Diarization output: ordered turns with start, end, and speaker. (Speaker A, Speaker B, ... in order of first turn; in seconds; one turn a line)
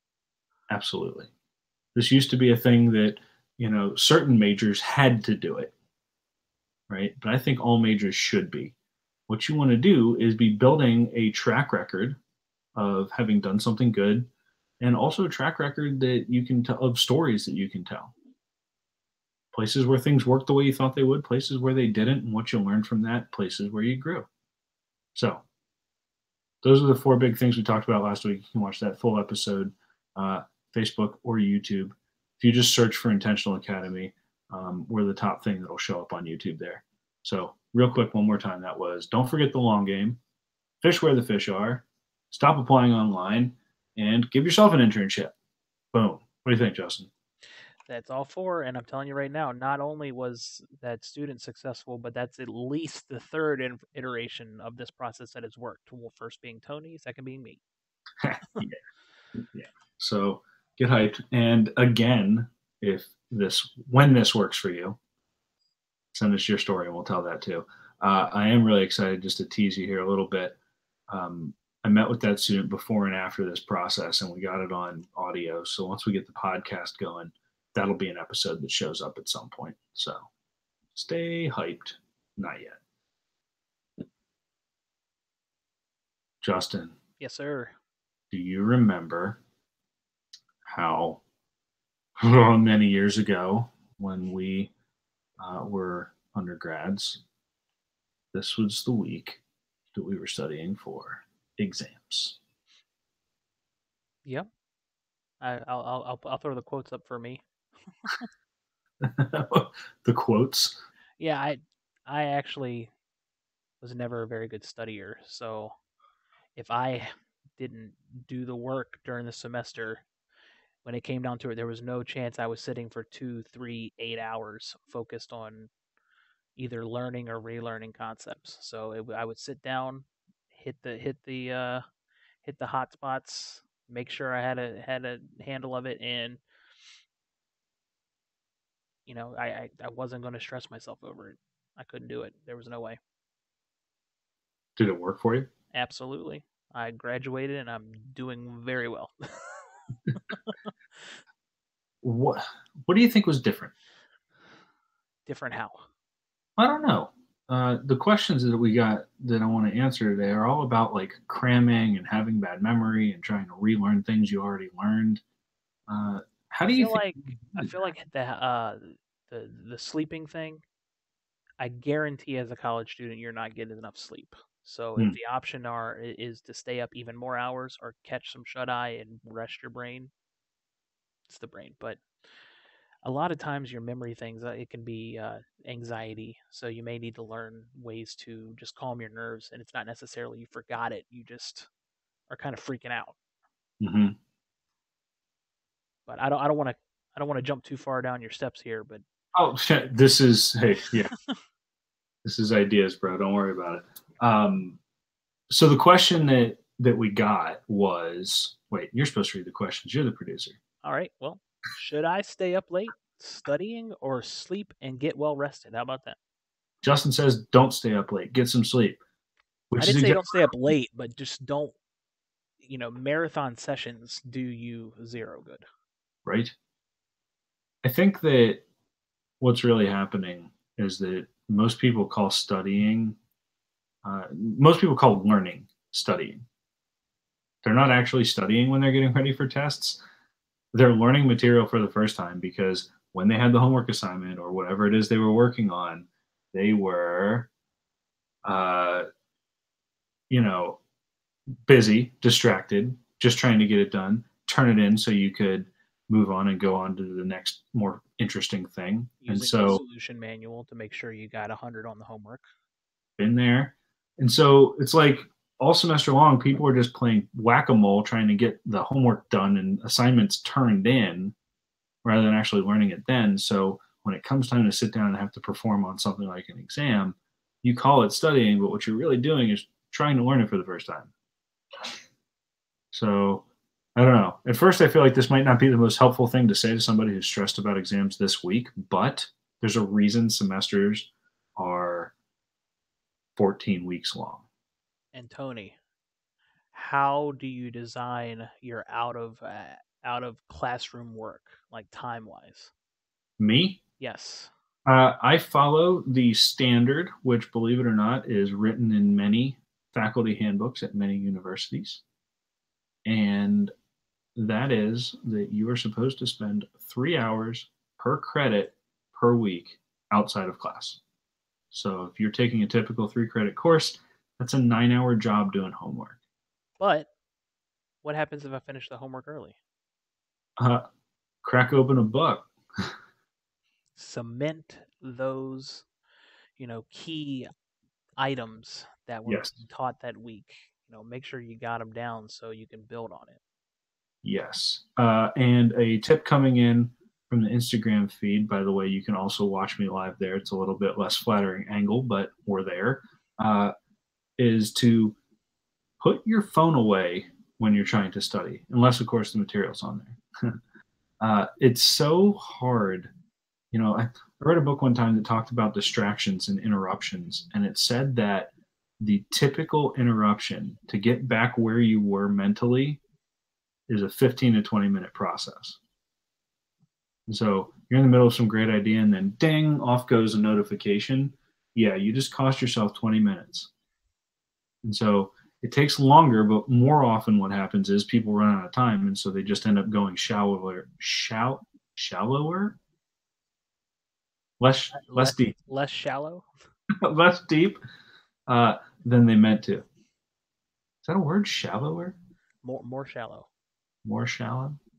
Speaker A: 0.7-1.3
Speaker A: 1.9-5.7
Speaker A: 6.9-8.8
Speaker A: 9.3-12.2
Speaker A: 12.8-14.3
Speaker A: 14.8-18.1
Speaker A: 19.5-24.3
Speaker A: 25.1-25.4
Speaker A: 26.6-40.2
Speaker A: 40.8-45.3
Speaker A: 45.9-47.1
Speaker B: 47.9-57.6
Speaker A: 58.2-58.8
Speaker A: 59.4-65.0
Speaker A: 66.1-70.6
Speaker A: 71.1-80.3
Speaker A: 80.9-82.8
Speaker A: 86.4-87.0
Speaker B: 87.2-87.8
Speaker A: 88.3-89.4
Speaker A: 90.7-91.2
Speaker A: 92.2-94.7
Speaker A: 95.4-97.2
Speaker A: 98.3-99.4
Speaker A: 99.9-102.4
Speaker B: 105.4-108.3
Speaker A: 109.0-110.8
Speaker B: 111.2-112.9
Speaker B: 113.8-115.8
Speaker B: 116.6-120.0
Speaker B: 120.8-125.7
Speaker B: 126.6-131.8
Speaker B: 132.4-136.4
Speaker B: 139.1-143.0
Speaker A: 144.8-145.5
Speaker B: 145.7-151.1
Speaker A: 152.0-153.7
Speaker B: 155.3-155.9
Speaker A: 156.6-165.2
Speaker A: 165.9-167.7
Speaker B: 166.7-170.6
Speaker B: 171.6-180.1
Speaker B: 181.3-182.1
Speaker B: 183.0-191.7
Speaker B: 192.3-193.2
Speaker A: 193.8-194.2
Speaker B: 196.1-199.0
Speaker A: 199.3-201.1
Speaker A: 202.2-204.8
Speaker A: 205.5-210.6
Speaker B: 210.8-216.2
Speaker A: 216.8-219.0
Speaker A: 219.7-220.5
Speaker B: 219.8-221.8
Speaker B: 222.6-225.7
Speaker A: 226.2-226.5
Speaker A: 227.8-228.6
Speaker A: 229.4-233.2
Speaker A: 234.0-236.4
Speaker A: 237.6-240.0
Speaker A: 240.7-247.5
Speaker A: 248.4-249.1
Speaker A: 250.3-250.8
Speaker A: 251.7-259.8
Speaker B: 259.2-262.5
Speaker A: 263.2-271.4
Speaker A: 272.0-281.1
Speaker A: 282.9-283.4
Speaker A: 284.0-292.1
Speaker A: 293.4-294.4
Speaker B: 295.1-295.8
Speaker B: 296.7-302.7
Speaker A: 303.4-303.8
Speaker B: 304.0-304.5
Speaker A: 304.9-312.0
Speaker A: 313.1-313.7
Speaker A: 314.4-321.0
Speaker A: 321.7-326.2
Speaker B: 326.8-327.1
Speaker B: 328.0-329.6
Speaker A: 330.6-330.8
Speaker A: 331.4-332.9
Speaker B: 334.0-335.9
Speaker B: 336.6-337.5
Speaker B: 338.2-343.4
Speaker A: 339.3-339.5
Speaker A: 344.2-353.7
Speaker A: 354.4-355.2
Speaker A: 356.0-360.6
Speaker A: 361.2-363.1
Speaker A: 363.7-373.0
Speaker A: 373.9-375.8
Speaker A: 377.3-383.7
Speaker A: 384.8-392.8
Speaker A: 394.6-395.6
Speaker B: 394.9-396.5
Speaker A: 397.0-397.8
Speaker A: 398.5-399.9
Speaker A: 401.0-402.2
Speaker B: 402.6-403.5
Speaker A: 404.1-404.8